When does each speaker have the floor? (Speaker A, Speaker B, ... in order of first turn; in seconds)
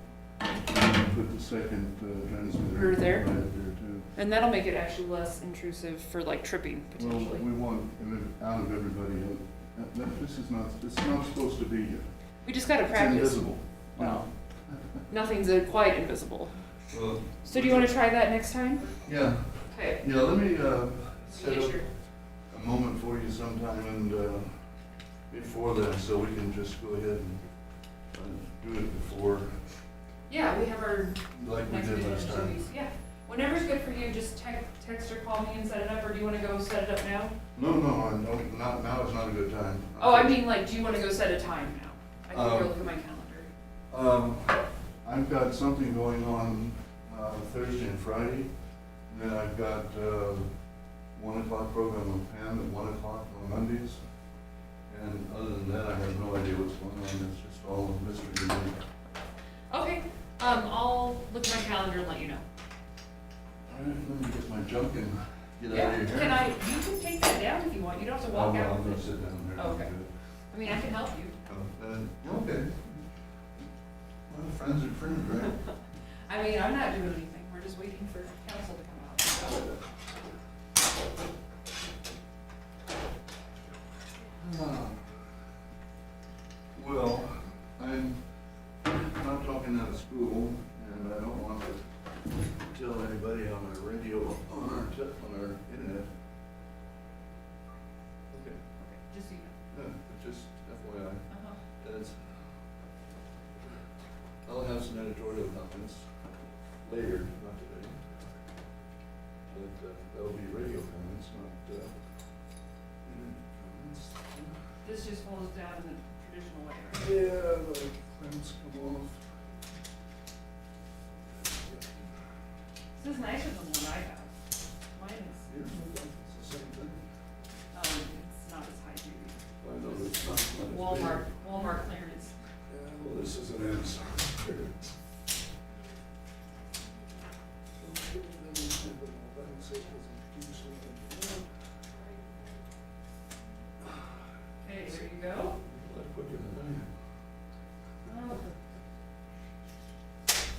Speaker A: 0.6-4.1, 7.0-12.1, 12.9-14.3, 16.9-18.0, 19.0-21.9, 22.5-24.6, 25.3-27.4, 28.1-29.6, 31.3-32.6, 37.5-40.5, 42.3-42.9, 43.9-48.5, 49.1-50.5, 51.1-54.0, 54.9-58.8, 63.7-66.5, 68.3-70.1, 71.5-73.0, 74.3-75.6, 79.5-79.8, 84.3-85.2, 86.7-88.2, 88.8-91.8, 92.5-96.1, 98.3-98.6, 99.7-101.3, 101.8-102.4, 104.5-106.1, 106.8-108.0, 109.5-111.9, 113.0-114.6, 116.9-119.2, 121.4-122.1, 125.5-127.0, 129.6-131.2, 132.7-134.9, 137.8-141.5, 144.8-146.9
Speaker B: 2.7-3.3, 4.2-7.4, 12.4-14.3, 15.1-16.6, 17.4-19.0, 19.7-20.1, 21.2-21.9, 30.3-37.3, 40.0-43.5, 59.7-62.5, 65.7-69.9, 70.5-71.4, 76.3-79.7, 98.8-99.6, 101.3-101.6, 114.8-117.1, 123.0-124.3, 124.9-125.5, 127.7-129.4, 130.6-132.3, 144.6-145.6, 148.0-148.6